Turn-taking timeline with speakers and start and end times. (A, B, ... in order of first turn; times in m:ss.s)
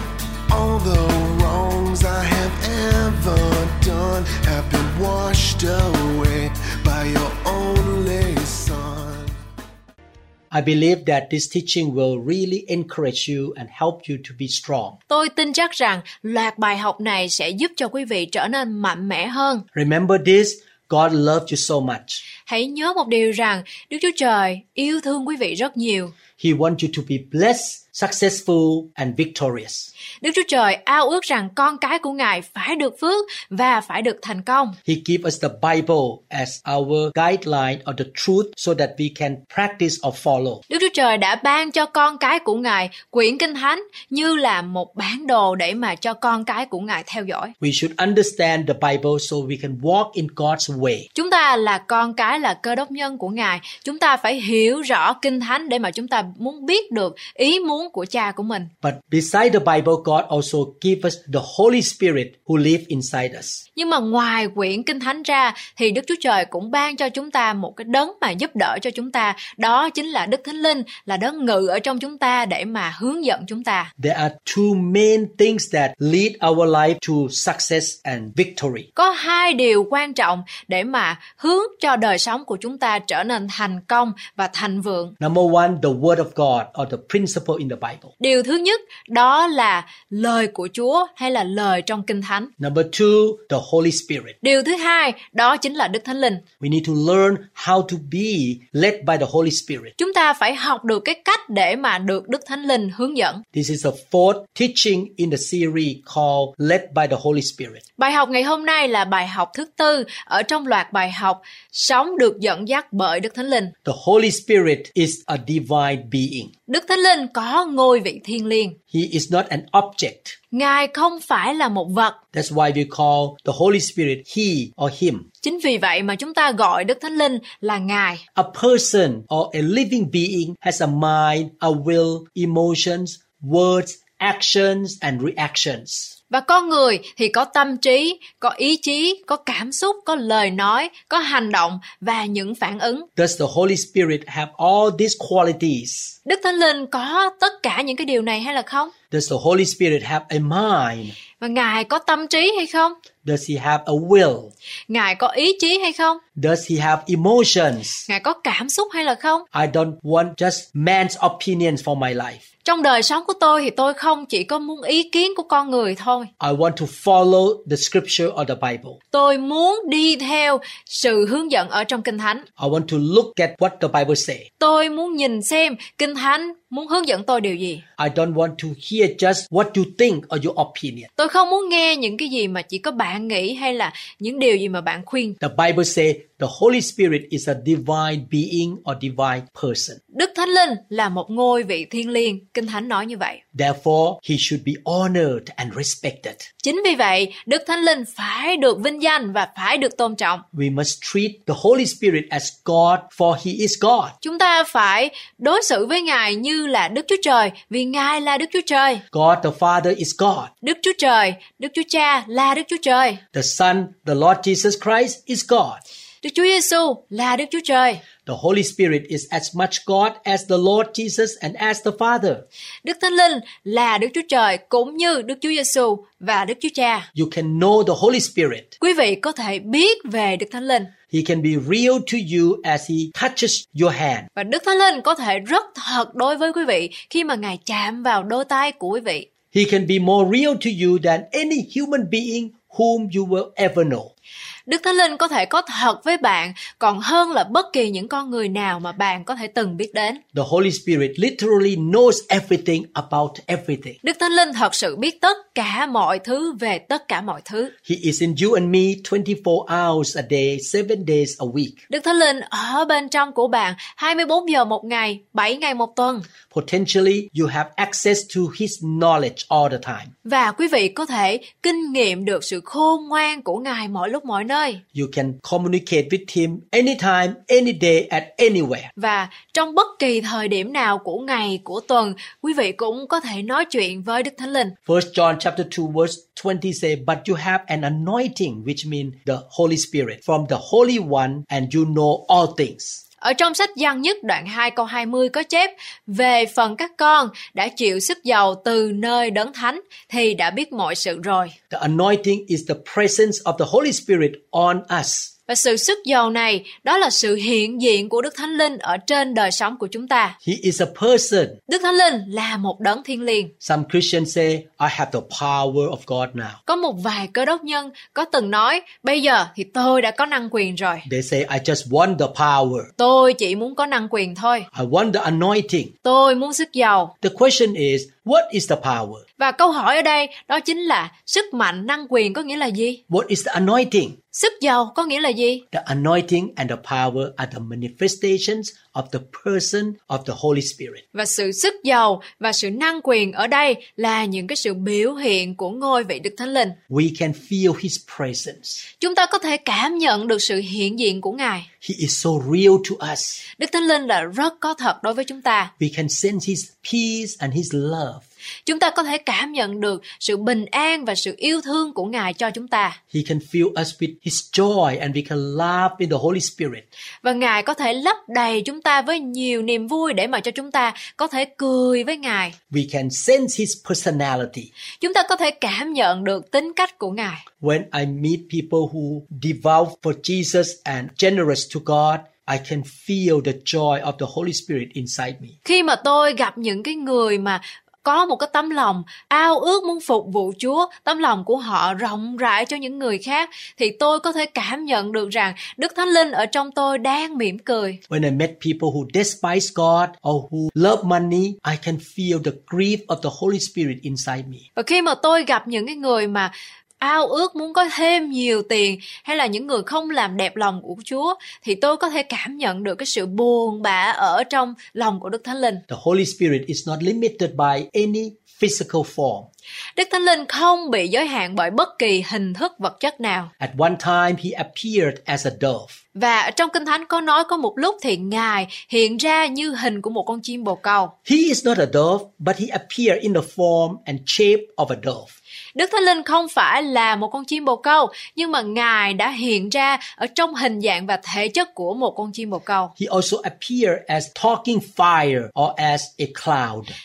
0:00.5-0:09.4 A
0:10.5-0:15.0 B
0:15.1-0:19.6 C
0:19.7-0:22.2 B
0:22.4-0:26.1 C
0:26.4-0:29.9 B
0:30.2-0:34.8 C
0:34.8-0:40.6 B
0:40.7-0:47.5 C
0:47.6-0:51.1 B
0:51.1-0:58.7 C
0:58.8-1:03.6 B
1:03.7-1:13.9 C
1:14.0-1:18.9 B
1:19.0-1:25.1 C
1:25.2-1:28.1 B
1:28.2-1:32.5 C
1:32.6-1:34.4 B
1:34.4-1:36.4 C
1:36.6-1:39.9 B
1:40.0-1:43.4 C
1:43.5-1:47.8 B
1:48.0-1:53.7 C
1:53.8-1:56.5 B
1:56.7-1:58.8 C
1:58.9-2:00.4 B
2:00.5-2:02.2 C
2:02.3-2:05.3 B
2:05.4-2:08.2 C
2:08.3-2:16.1 B
2:16.3-2:23.1 C
2:23.2-2:26.2 B
2:26.2-2:28.9 C
2:29.1-2:31.2 B
2:31.4-2:33.0 C
2:33.2-2:34.5 B
2:34.9-2:36.2 C
2:36.4-2:38.0 B
2:38.1-2:39.4 C
2:39.5-2:42.4 B
2:42.6-2:46.3 C
2:46.4-2:49.0 B
2:49.1-2:52.4 C
2:52.6-2:54.5 B
2:54.6-2:57.8 C
2:58.0-3:01.1 B
3:01.2-3:05.4 C
3:05.4-3:10.0 B
3:10.1-3:13.4 C
3:13.5-3:16.5 B
3:16.6-3:20.4 C
3:20.5-3:24.2 B
3:24.2-3:29.0 C
3:29.1-3:30.5 B
3:30.6-3:33.2 C
3:33.3-3:35.8 B
3:36.2-3:38.0 C
3:38.2-3:42.4 B
3:42.8-3:47.1 C
3:47.1-3:48.7 B
3:48.8-3:50.9 C
3:51.1-3:54.3 B
3:54.4-3:59.2 C
3:59.5-4:04.1 B
4:04.7-4:10.2 C
4:10.3-4:14.0 B
4:14.0-4:17.7 C
4:17.8-4:21.8 B
4:21.9-4:26.3 C
4:26.5-4:30.1 B
4:30.2-4:34.8 C
4:34.9-4:38.9 B
4:39.0-4:44.7 C
4:44.8-4:53.0 B
4:53.2-5:01.5 C
5:01.7-5:05.3 B
5:05.5-5:10.4 C
5:10.4-5:11.6 B
5:11.7-5:13.5 C
5:13.6-5:16.6 B
5:16.7-5:21.0 C
5:21.0-5:22.9 B
5:23.0-5:24.7 C
5:24.7-5:25.9 B
5:26.0-5:27.1 C
5:27.2-5:29.2 B
5:29.4-5:33.0 C
5:33.1-5:34.2 B
5:34.3-5:35.6 C
5:35.7-5:41.0 B
5:41.1-5:46.8 C
5:46.9-5:48.8 B
5:49.0-5:51.7 C
5:51.8-5:53.4 B
5:53.6-5:55.7 C
5:55.8-5:58.2 B
5:58.6-6:03.0 C
6:03.1-6:06.8 B
6:07.2-6:12.6 C
6:12.7-6:14.7 B
6:15.0-6:17.4 C
6:17.6-6:25.5 B
6:25.6-6:38.0 C
6:38.1-6:44.6 B
6:44.8-6:55.8 C
6:55.9-6:59.5 B
7:00.0-7:03.5 C
7:03.6-7:06.0 B
7:06.1-7:11.1 C
7:11.2-7:15.3 B
7:15.7-7:22.9 C
7:23.0-7:27.0 B